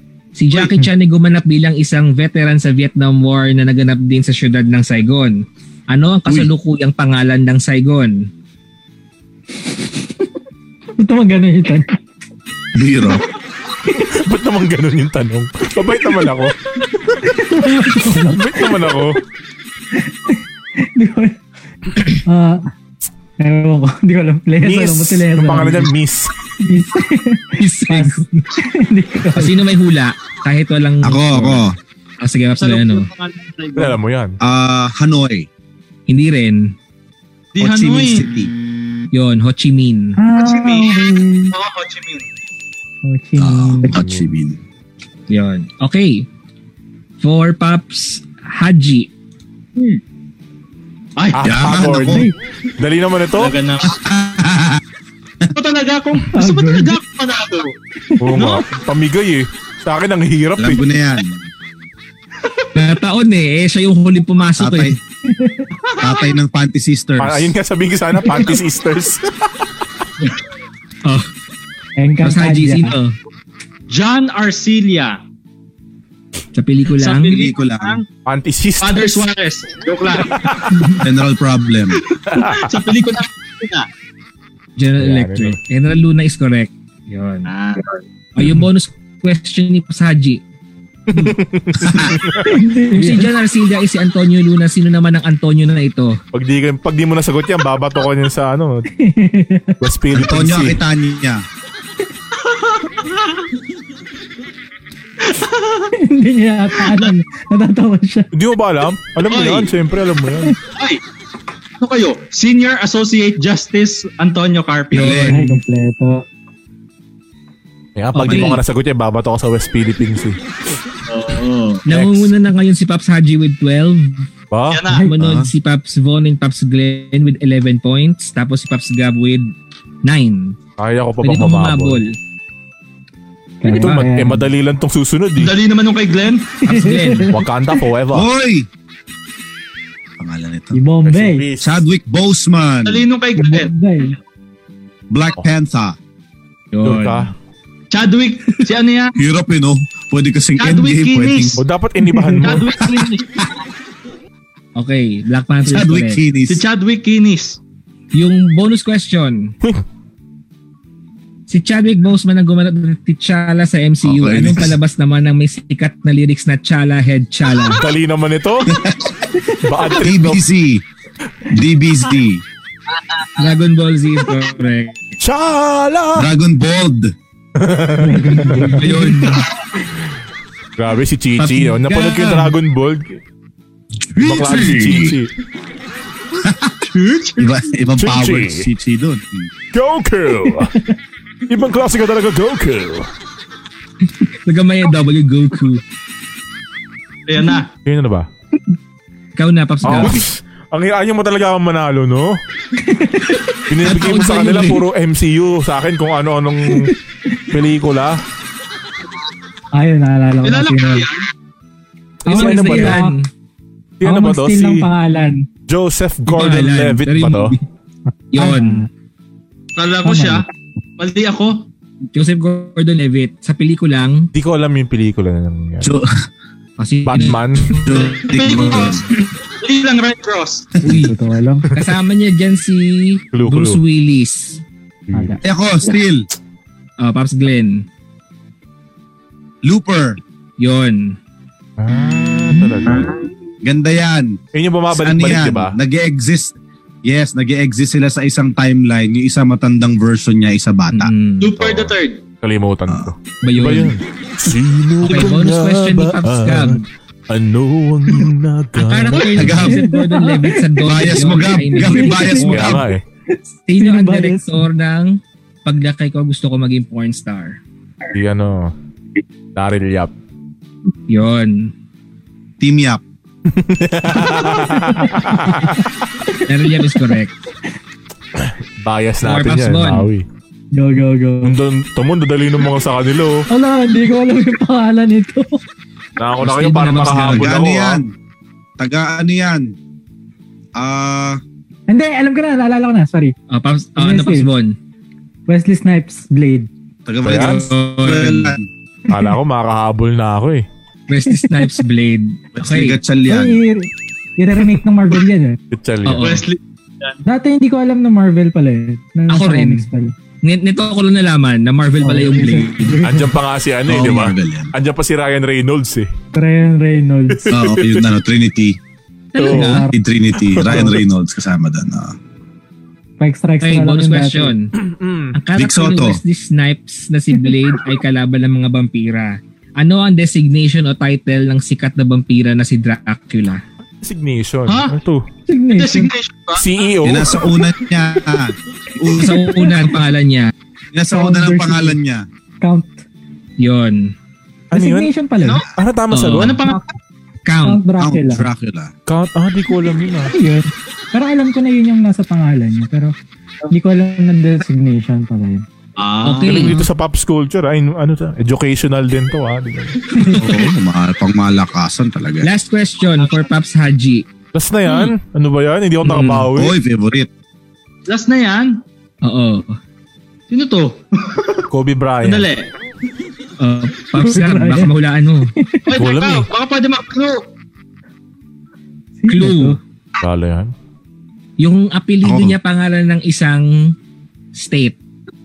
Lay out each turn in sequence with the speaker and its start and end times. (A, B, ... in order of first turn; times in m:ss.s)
0:00.4-0:08.3 A
0:11.0-0:12.0 B
0:12.8-0:13.2 C
0:14.0-0:16.6 D
0:17.1-0:19.2 D
0:17.2-0:19.0 B
0:20.0-0:21.4 B
0:22.2-0:22.7 B
0:23.4-0:25.9 B
0:24.6-0:26.3 D
0:26.6-0:29.6 B
0:27.6-0:28.4 A
0:29.4-0:31.7 A
0:31.0-0:31.8 C
0:32.2-0:33.1 A
0:32.6-0:34.0 E
0:33.8-0:34.4 D
0:34.4-0:35.5 C
0:36.1-0:36.8 A
0:37.6-0:38.3 E
0:37.6-0:38.5 C
0:39.1-0:40.2 A
0:40.2-0:41.5 B
0:40.4-0:42.3 E
0:43.0-0:44.0 B
0:43.4-0:44.6 C
0:43.9-0:44.3 D
0:45.3-0:46.3 A
0:47.2-0:49.1 A
0:51.2-0:51.4 E
0:51.3-0:53.6 D
0:51.4-0:52.3 C
0:52.1-0:52.3 B
0:53.4-0:54.0 E
0:53.8-0:54.8 C
0:55.5-0:57.7 E
0:56.3-0:57.0 B
0:58.2-1:00.8 D
0:58.3-0:58.6 E
1:00.6-1:01.4 C
1:02.8-1:05.0 A
1:04.6-1:05.0 C
1:05.3-1:05.7 B
1:05.9-1:06.3 E
1:06.0-1:07.5 C
1:07.2-1:09.6 D
1:12.0-1:13.0 B
1:12.2-1:13.2 A
1:13.9-1:15.2 E
1:16.5-1:17.4 A
1:17.0-1:18.0 E
1:17.3-1:18.0 C
1:18.3-1:19.3 D
1:18.8-1:20.9 E
1:20.2-1:20.9 D
1:21.0-1:22.0 C
1:22.1-1:23.9 E
1:22.3-1:22.7 D
1:24.8-1:27.5 A
1:25.0-1:25.6 D
1:27.5-1:28.0 E
1:28.4-1:30.4 A
1:31.1-1:32.6 D
1:31.8-1:32.2 C
1:32.4-1:33.3 B
1:32.7-1:36.2 A
1:36.3-1:38.9 D
1:38.9-1:39.8 B
1:39.8-1:40.8 D
1:40.1-1:41.4 C
1:42.4-1:43.5 E
1:45.2-1:45.9 E
1:45.9-1:48.3 B
1:46.8-1:47.1 E
1:48.3-1:50.6 D
1:49.3-1:49.7 E
1:50.7-1:51.0 E
1:51.8-1:55.3 E
1:54.9-1:55.6 A
1:54.9-1:55.3 C
1:55.2-1:56.2 B
1:58.0-2:00.4 D
1:58.2-1:58.6 A
2:01.1-2:01.8 E
2:01.9-2:04.3 A
2:01.9-2:02.3 D
2:04.5-2:04.8 D
2:04.7-2:05.1 E
2:04.9-2:09.5 A
2:05.2-2:05.5 C
2:10.0-2:10.6 A
2:10.8-2:12.0 D
2:11.2-2:12.2 A
2:13.6-2:14.5 B
2:13.7-2:15.6 D
2:15.4-2:16.6 E
2:16.6-2:17.3 A
2:16.6-2:17.4 B
2:17.3-2:18.3 D
2:18.1-2:18.7 C
2:20.2-2:20.8 C
2:20.7-2:21.4 B
2:21.0-2:21.8 D
2:21.6-2:23.0 C
2:22.8-2:23.7 E
2:23.4-2:24.2 B
2:25.1-2:26.0 C
2:26.7-2:27.3 A
2:26.8-2:27.3 D
2:27.9-2:29.2 E
2:29.2-2:31.6 C
2:30.6-2:31.6 E
2:31.6-2:32.8 D
2:32.0-2:32.6 B
2:32.4-2:33.3 E
2:32.8-2:33.4 C
2:34.8-2:36.2 A
2:35.6-2:36.6 C
2:36.5-2:37.6 E
2:38.1-2:39.5 A
2:41.5-2:47.8 A
2:44.0-2:44.8 C
2:47.8-2:48.8 D
2:48.7-2:49.2 C
2:49.6-2:50.4 D
2:49.9-2:50.8 C
2:51.5-2:52.4 C
2:53.4-2:55.1 A
2:55.2-2:56.3 D
2:56.2-2:57.1 C
2:57.6-2:58.8 D
2:58.0-2:59.0 B
2:58.8-2:59.5 A
2:59.2-2:59.6 E
3:00.8-3:03.2 D
3:01.4-3:02.5 A
3:04.0-3:05.2 C
3:04.2-3:05.3 D
3:06.4-3:06.8 C
3:06.8-3:07.6 E
3:07.4-3:09.5 C
3:08.0-3:08.7 D
3:09.7-3:10.8 D
3:10.5-3:11.0 B
3:11.5-3:13.1 D
3:14.0-3:15.8 A
3:17.3-3:17.7 E
3:17.8-3:18.3 D
3:19.4-3:20.3 A
3:19.8-3:22.4 D
3:22.8-3:23.5 B
3:23.7-3:26.9 D
3:23.8-3:24.8 A
3:26.7-3:27.0 B
3:27.5-3:28.2 D
3:29.7-3:31.1 B
3:30.4-3:31.3 E
3:32.3-3:33.1 D
3:32.3-3:33.2 B
3:32.3-3:33.3 A
3:34.0-3:34.9 D
3:34.0-3:35.5 B
3:35.7-3:37.6 D
3:36.3-3:37.6 A
3:38.1-3:38.9 B
3:38.3-3:38.8 A
3:39.8-3:40.4 E
3:40.0-3:40.4 B
3:41.0-3:41.7 E
3:42.1-3:44.3 A
3:44.3-3:45.9 D
3:45.8-3:46.1 C
3:46.8-3:48.0 A
3:47.1-3:47.9 D
3:47.8-3:49.0 C
3:48.1-3:50.7 E
3:50.8-3:51.7 B
3:50.8-3:51.1 A
3:51.7-3:54.6 A
3:53.3-3:53.8 D
3:55.1-3:55.4 D
3:55.1-3:55.4 B
3:55.4-3:56.3 C
3:57.0-3:57.9 A
3:59.6-4:00.2 C
4:00.6-4:01.2 A
4:01.8-4:03.1 D
4:02.6-4:03.0 B
4:03.6-4:04.4 C
4:04.5-4:05.8 D
4:04.9-4:11.1 C
4:10.9-4:11.6 A
4:11.4-4:12.2 E
4:11.6-4:19.7 D
4:13.4-4:13.9 A
4:15.0-4:16.8 A
4:18.8-4:22.8 A
4:19.1-4:19.5 E
4:19.4-4:19.8 C
4:19.6-4:22.6 B
4:20.8-4:22.9 C
4:22.5-4:23.0 D
4:23.3-4:24.7 B
4:23.7-4:27.6 A
4:28.1-4:28.7 D
4:29.6-4:30.1 D
4:31.1-4:31.7 A
4:32.6-4:33.0 C
4:33.5-4:35.9 D
4:34.2-4:37.0 B
4:36.5-4:37.3 A
4:38.4-4:40.3 D
4:39.2-4:40.1 A
4:40.7-4:41.6 B
4:41.4-4:43.5 D
4:43.5-4:45.6 B
4:46.2-4:48.0 D
4:46.4-4:47.5 A
4:47.2-4:48.1 C
4:48.8-4:49.7 C
4:50.8-4:51.4 C
4:51.9-4:53.4 B
4:53.5-4:54.8 A
4:54.0-4:54.5 B
4:55.5-4:56.7 B
4:57.1-4:58.7 C
4:57.2-4:57.6 D
4:57.3-4:58.5 A
4:59.1-5:00.6 D
5:01.1-5:03.0 A
5:01.3-5:01.8 B
5:02.6-5:03.6 C
5:03.3-5:05.6 B
5:05.7-5:06.4 D
5:06.0-5:06.4 A
5:06.2-5:07.2 E
5:07.3-5:10.1 B
5:09.3-5:09.9 A
5:10.4-5:13.0 A
5:12.0-5:13.3 B
5:13.0-5:16.1 D
5:13.9-5:14.7 C
5:13.9-5:14.2 A
5:16.3-5:17.4 B
5:17.3-5:18.1 D
5:17.5-5:18.8 C
5:19.3-5:19.8 A
5:19.4-5:19.8 D
5:19.5-5:20.0 B
5:19.8-5:22.2 C
5:20.4-5:21.0 D
5:23.2-5:24.5 B
5:23.6-5:24.7 A
5:24.8-5:25.4 D
5:25.3-5:33.6 A
5:25.6-5:26.2 C
5:34.0-5:35.3 D
5:34.7-5:35.0 E
5:35.5-5:36.1 B
5:35.7-5:36.7 E
5:36.6-5:37.6 D
5:37.0-5:39.5 C
5:39.1-5:40.5 A
5:39.4-5:39.7 B
5:40.9-5:42.2 C
5:41.1-5:42.0 B
5:42.6-5:43.0 B
5:43.6-5:44.2 A
5:44.7-5:45.1 D
5:44.7-5:45.6 B
5:45.4-5:45.7 E
5:45.8-5:46.6 D
5:46.1-5:46.6 A
5:46.4-5:46.8 E
5:47.4-5:47.8 A
5:47.6-5:48.5 B
5:48.0-5:48.9 C
5:49.1-5:50.3 D
5:50.3-5:53.1 B
5:53.7-5:55.6 B
5:56.0-5:56.7 E
5:56.2-5:56.9 A
5:56.4-6:00.2 D
6:00.2-6:00.4 B
6:00.4-6:02.5 C
6:02.4-6:04.2 A
6:03.2-6:03.4 E
6:04.5-6:06.8 D
6:06.0-6:06.5 A
6:06.6-6:07.3 C
6:08.1-6:08.8 E
6:09.2-6:09.8 A
6:10.5-6:11.6 E
6:11.7-6:12.5 D
6:12.2-6:12.7 E
6:13.6-6:15.5 A
6:14.2-6:14.9 B
6:15.6-6:15.9 B
6:15.9-6:17.4 E
6:16.0-6:16.5 D
6:19.2-6:19.8 B
6:19.3-6:19.8 A
6:20.2-6:20.7 D
6:21.6-6:23.9 A
6:22.2-6:22.6 C
6:24.5-6:25.0 A